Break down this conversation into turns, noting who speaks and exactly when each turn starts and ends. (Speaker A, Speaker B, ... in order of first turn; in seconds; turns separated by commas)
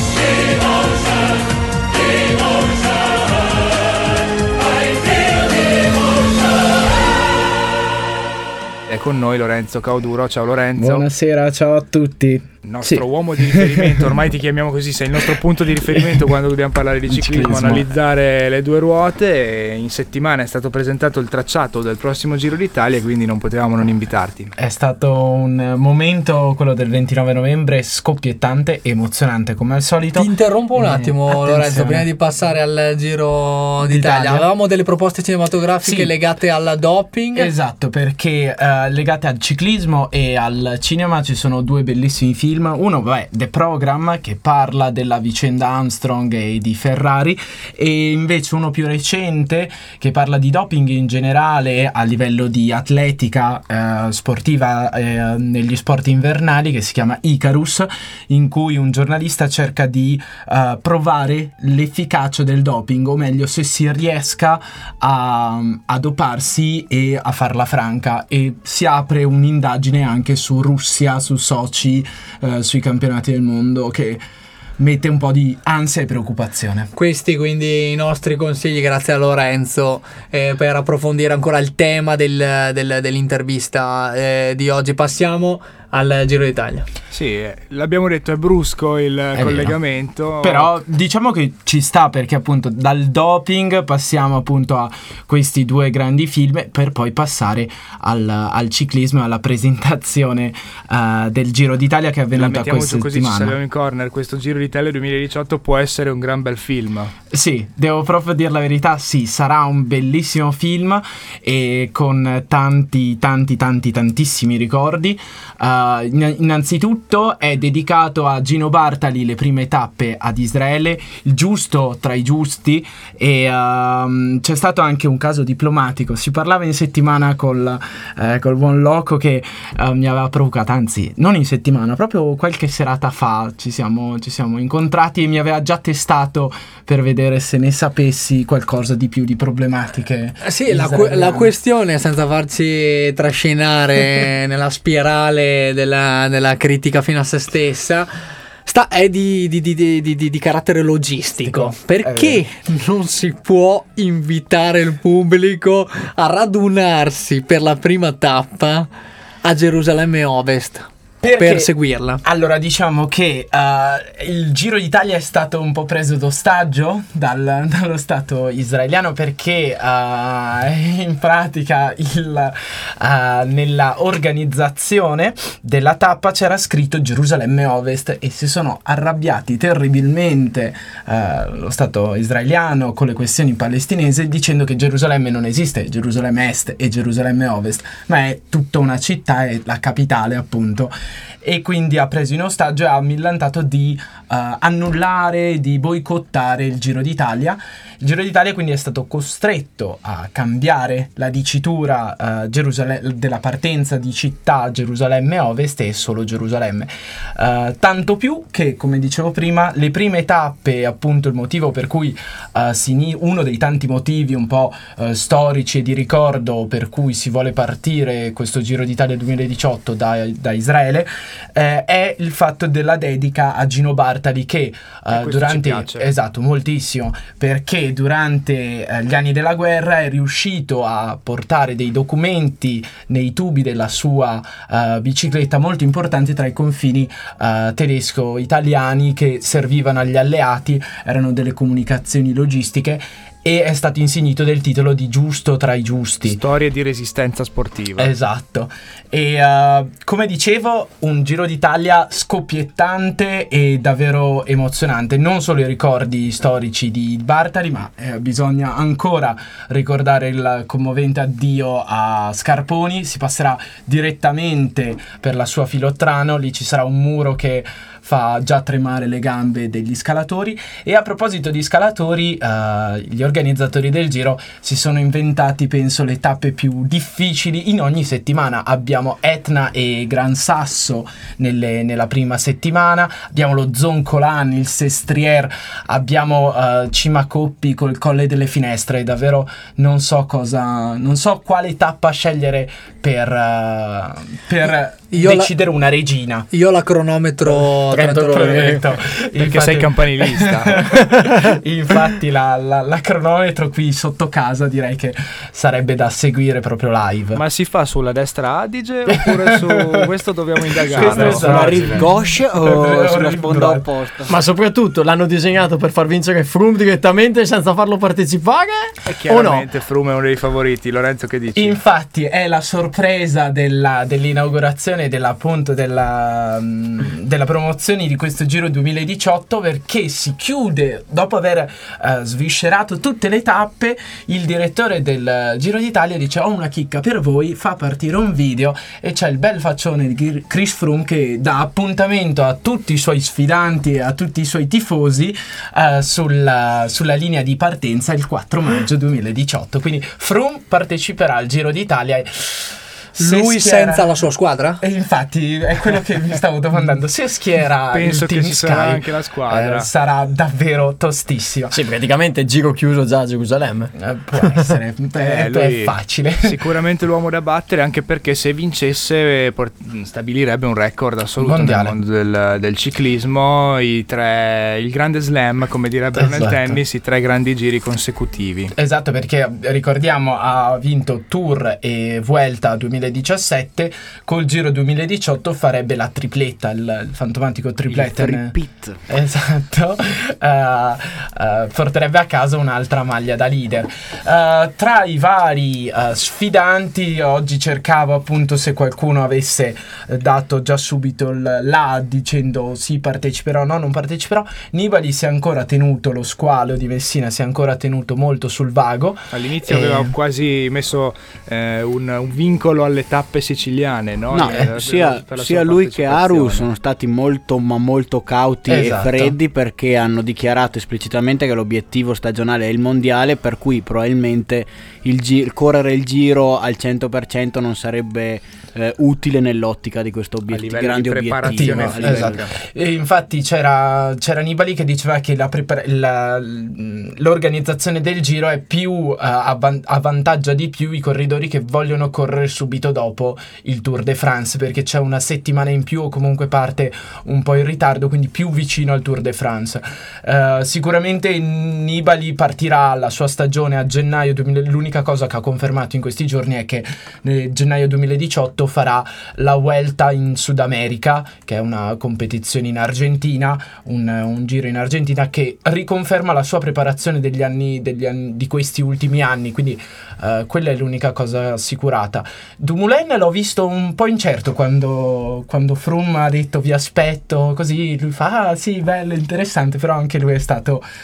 Speaker A: 8.9-11.1, Speaker B: 10.8-14.1, Speaker A: 12.6-24.5, Speaker B: 17.1-17.9, Speaker B: 24.6-32.1, Speaker C: 30.1-37.5, Speaker B: 33.8-34.5, Speaker B: 35.8-36.1, Speaker B: 37.3-74.2, Speaker B: 74.8-76.9, Speaker C: 76.9-86.8, Speaker A: 87.1-90.7, Speaker B: 89.3-103.6, Speaker A: 102.3-107.1, Speaker B: 107.3-141.5, Speaker C: 140.4-148.1, Speaker C: 148.6-158.9, Speaker B: 151.4-152.4, Speaker C: 159.4-162.2, Speaker B: 161.2-161.7, Speaker B: 162.2-246.4, Speaker A: 225.1-226.1, Speaker A: 246.3-248.1, Speaker B: 248.0-296.5, Speaker C: 295.1-295.5, Speaker C: 296.5-298.8, Speaker D: 297.9-298.8, Speaker B: 298.3-307.4, Speaker A: 299.4-300.8, Speaker A: 307.3-312.0, Speaker B: 309.1-310.1, Speaker B: 310.7-313.9, Speaker E: 310.9-314.3, Speaker D: 311.2-312.0, Speaker D: 314.3-319.7, Speaker A: 319.0-321.8, Speaker B: 321.5-354.1, Speaker C: 353.2-354.8, Speaker B: 354.8-361.8, Speaker A: 357.9-359.9, Speaker D: 361.7-363.9, Speaker B: 364.0-366.6, Speaker A: 365.2-378.7, Speaker B: 371.4-371.9, Speaker B: 376.1-376.8, Speaker B: 378.7-388.6, Speaker E: 387.9-389.0, Speaker B: 389.1-410.1, Speaker A: 409.3-416.7, Speaker E: 414.3-432.5, Speaker B: 414.4-414.7, Speaker B: 418.7-419.4, Speaker A: 430.5-432.5, Speaker B: 431.5-480.8